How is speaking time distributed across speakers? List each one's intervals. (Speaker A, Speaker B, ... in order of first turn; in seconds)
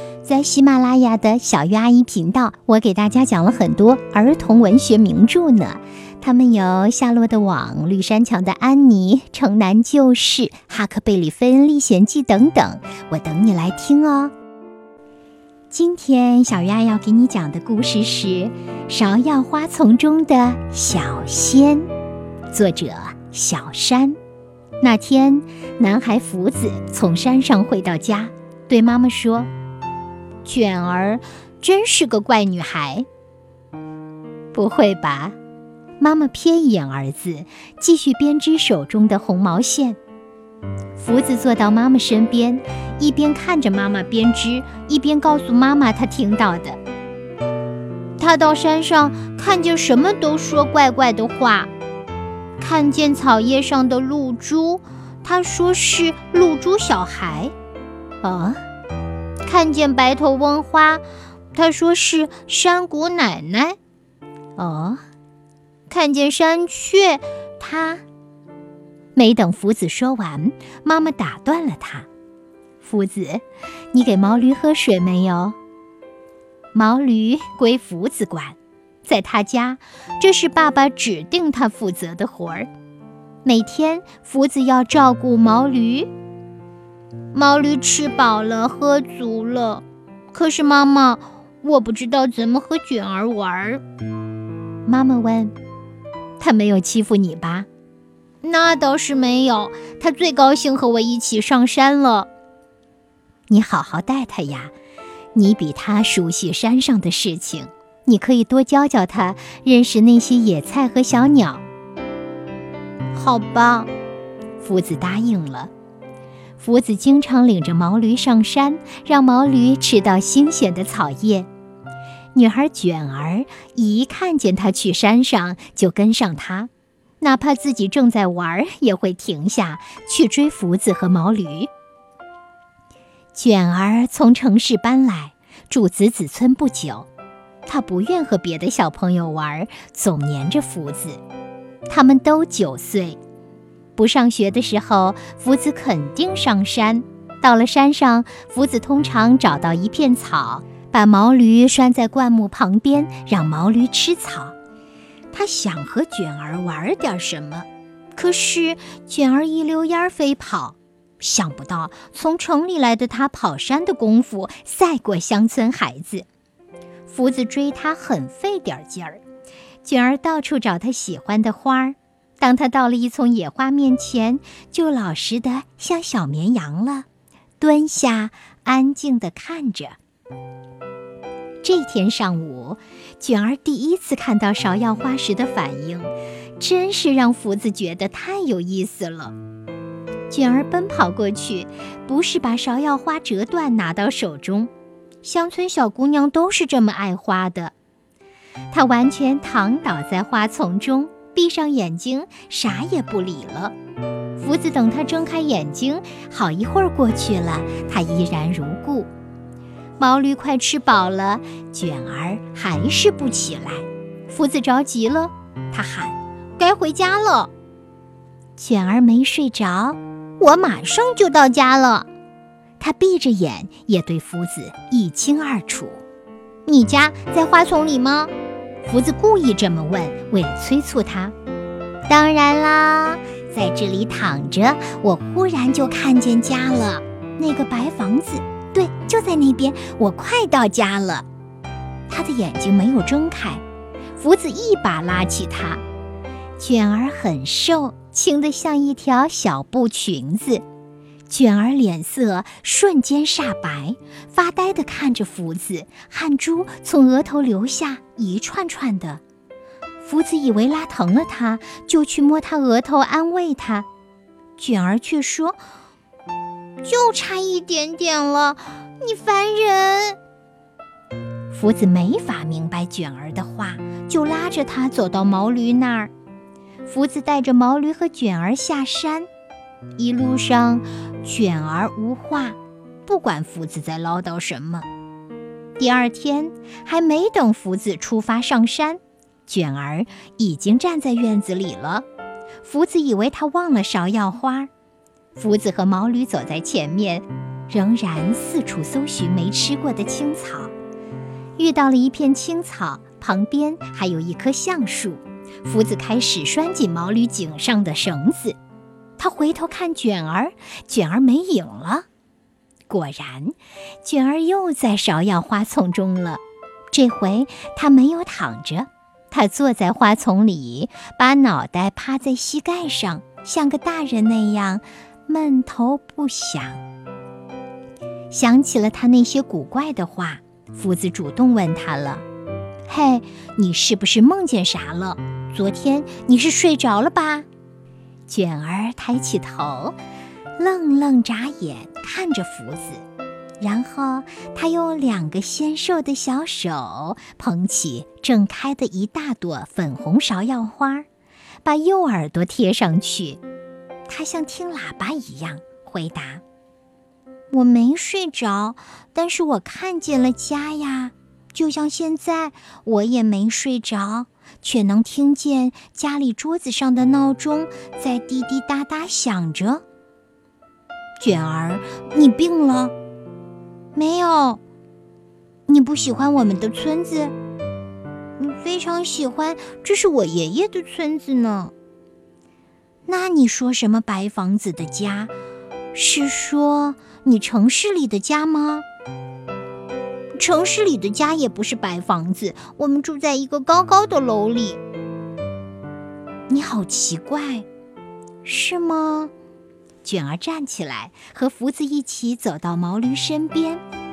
Speaker A: 0.2-14.3, 15.7-21.9, 22.5-24.2, 24.8-29.5, 30.4-33.1, 34.5-35.4, 36.0-40.0, 41.0-46.8, 48.2-51.7, 52.6-57.5, 58.2-58.6, 59.4-63.8, 64.6-65.0, 65.9-68.0, 69.2-72.1, 72.8-75.6, 76.7-82.7, 83.5-86.1, 87.3-93.8, 94.9-95.5, 96.4-97.7, 98.4-102.3, 103.5-104.7, 105.3-111.6, 113.1-113.9, 114.6-115.7, 116.6-121.5, 122.3-131.7, 133.3-137.1, 137.7-141.2, 141.9-143.2, 144.0-154.6, 155.3-166.3, 167.1-169.2, 169.8-177.1, 177.6-180.0, 181.6-189.3, 190.3-194.7, 195.2-197.7, 198.7-203.8, 204.4-209.1, 210.0-217.5, 218.6-222.1, 222.8-226.0, 226.7-228.3, 228.8-231.3, 232.1-241.3, 242.1-243.6, 244.2-245.8, 246.6-250.7, 251.3-259.2, 260.0-263.9, 264.6-265.6, 266.8-270.2, 271.5-276.1, 276.9-279.3, 280.0-284.9, 285.8-292.1, 292.6-294.7, 295.4-300.7, 301.6-308.6, 309.2-312.1, 312.9-326.8, 328.3-332.2, 332.9-337.5, 338.3-340.0, 340.6-343.0, 343.6-351.1, 351.6-353.4, 354.1-356.4, 357.5-369.8, 371.2-372.9, 373.9-374.6, 375.7-377.4, 378.4-381.7, 383.1-385.3, 385.9-388.9, 390.4-394.8, 396.5-397.7, 398.4-399.3, 400.0-403.8